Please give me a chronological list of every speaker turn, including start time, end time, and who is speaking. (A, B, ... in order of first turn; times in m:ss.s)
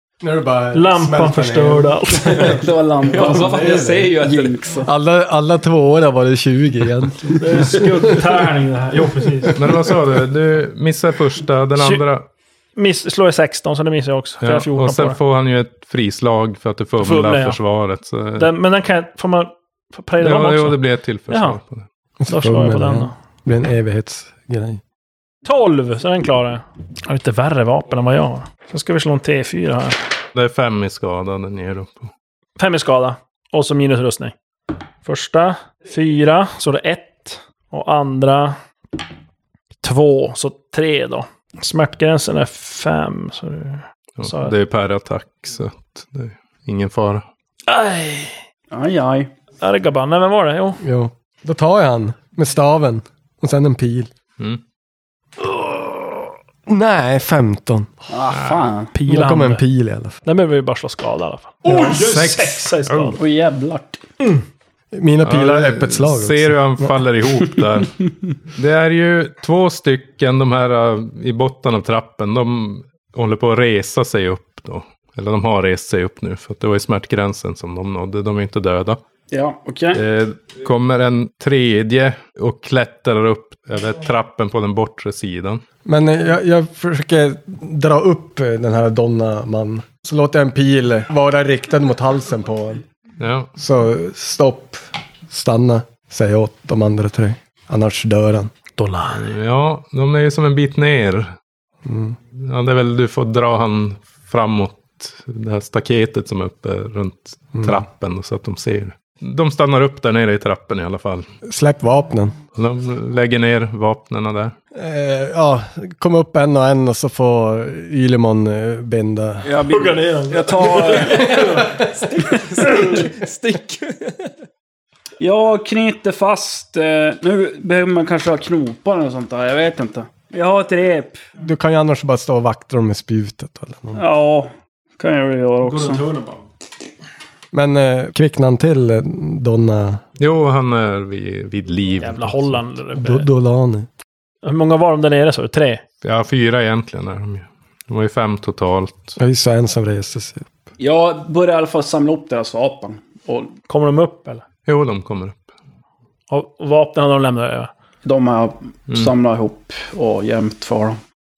0:00.2-0:02.2 A
0:00.7-0:02.6 B
0:02.2-0:04.9 C
0:03.1-0:04.6 D
0:03.1-0:04.1 A
0:04.8-0:08.1 A
0:07.4-0:09.7 B
0:09.6-0:12.2 E
0:11.8-0:12.0 B
0:12.8-0:15.2 B
0:14.4-0:18.5 E
0:17.0-0:17.6 B
0:18.4-0:21.6 B
0:20.2-0:21.8 E
0:22.2-0:24.8 A
0:22.3-0:23.1 B
0:25.4-0:30.0 B
0:30.4-0:32.1 E
0:32.6-0:34.4 B
0:35.0-0:38.6 B
0:39.8-0:44.6 B
0:44.2-0:47.2 E
0:47.7-0:48.4 B
0:48.7-0:49.3 C
0:49.6-0:50.8 B
0:50.8-0:54.1 A
0:56.7-0:57.9 A
0:58.1-0:58.9 C
0:58.3-0:58.6 E
0:58.9-0:59.6 B
0:59.1-1:00.2 A
1:00.2-1:03.2 B
1:01.6-1:02.7 A
1:02.9-1:03.2 E
1:03.2-1:04.0 C
1:04.9-1:07.0 A
1:05.2-1:08.0 E
1:08.5-1:19.0 E
1:19.3-1:20.0 C
1:19.9-1:25.6 E
1:25.8-1:32.8 A
1:33.2-1:33.5 E
1:33.6-1:38.5 A
1:38.8-1:39.3 B
1:39.1-1:41.3 E
1:41.9-1:42.2 A
1:42.3-1:51.3 E
1:47.6-1:47.8 A
1:51.4-1:52.4 A
1:52.6-1:54.6 E
1:54.7-1:59.5 A
1:59.4-2:01.7 C
1:59.7-2:03.1 B
2:00.9-2:04.3 D
2:05.2-2:11.2 C
2:11.4-2:14.0 A
2:14.0-2:16.0 C
2:15.6-2:16.4 B
2:17.5-2:20.0 A
2:20.2-2:22.6 E
2:22.0-2:23.3 B
2:23.0-2:23.9 A
2:24.4-2:25.8 B
2:26.0-2:29.2 E
2:29.2-2:30.5 A
2:30.8-2:33.5 C
2:33.7-2:34.4 B
2:34.7-2:35.4 E
2:36.3-2:37.7 B
2:38.0-2:41.0 C